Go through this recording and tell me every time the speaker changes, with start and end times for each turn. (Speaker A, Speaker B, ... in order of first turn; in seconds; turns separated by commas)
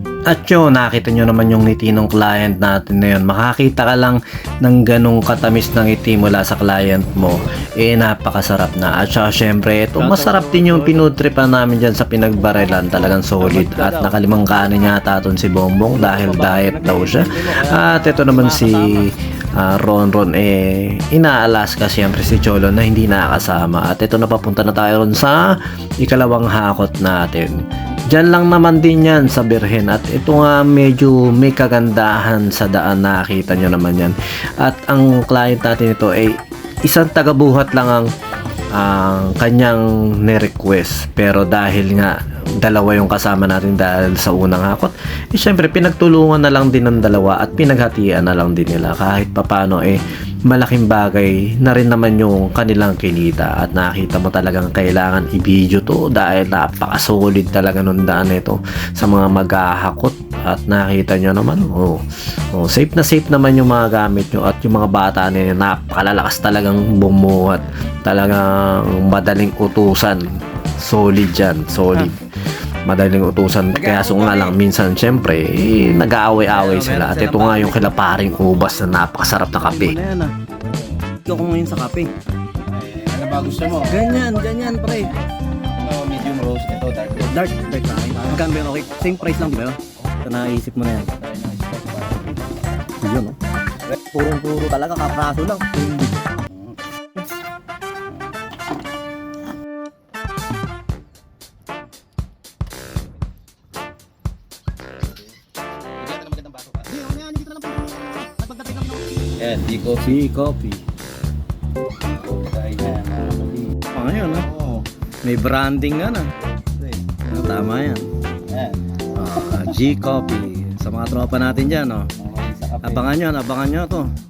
Speaker A: 0.3-25.4, Speaker B: 10.0-11.1, Speaker B: 13.4-14.2, Speaker B: 15.9-19.1, Speaker A: 26.0-27.5, Speaker A: 28.1-36.3, Speaker A: 36.9-38.1, Speaker A: 38.7-62.0, Speaker A: 62.5-70.3, Speaker A: 70.8-72.2, Speaker A: 72.9-80.0, Speaker B: 73.7-74.5, Speaker B: 76.5-78.2, Speaker B: 79.6-80.3, Speaker C: 80.5-81.2, Speaker B: 81.2-82.1, Speaker C: 82.6-84.3, Speaker B: 83.8-85.2, Speaker C: 85.8-87.6, Speaker B: 87.2-91.1, Speaker C: 88.1-90.5, Speaker C: 91.1-92.9, Speaker B: 93.0-93.4, Speaker B: 94.1-96.2, Speaker C: 96.5-96.8, Speaker C: 106.0-107.1, Speaker B: 107.0-108.9, Speaker C: 109.4-110.2, Speaker B: 110.0-110.8, Speaker C: 112.0-113.8, Speaker B: 113.9-114.5, Speaker C: 114.3-114.9, Speaker B: 115.2-116.3, Speaker C: 116.4-117.1, Speaker B: 117.3-118.0, Speaker C: 118.5-118.9, Speaker B: 119.2-122.1, Speaker C: 122.2-123.2, Speaker B: 122.8-124.1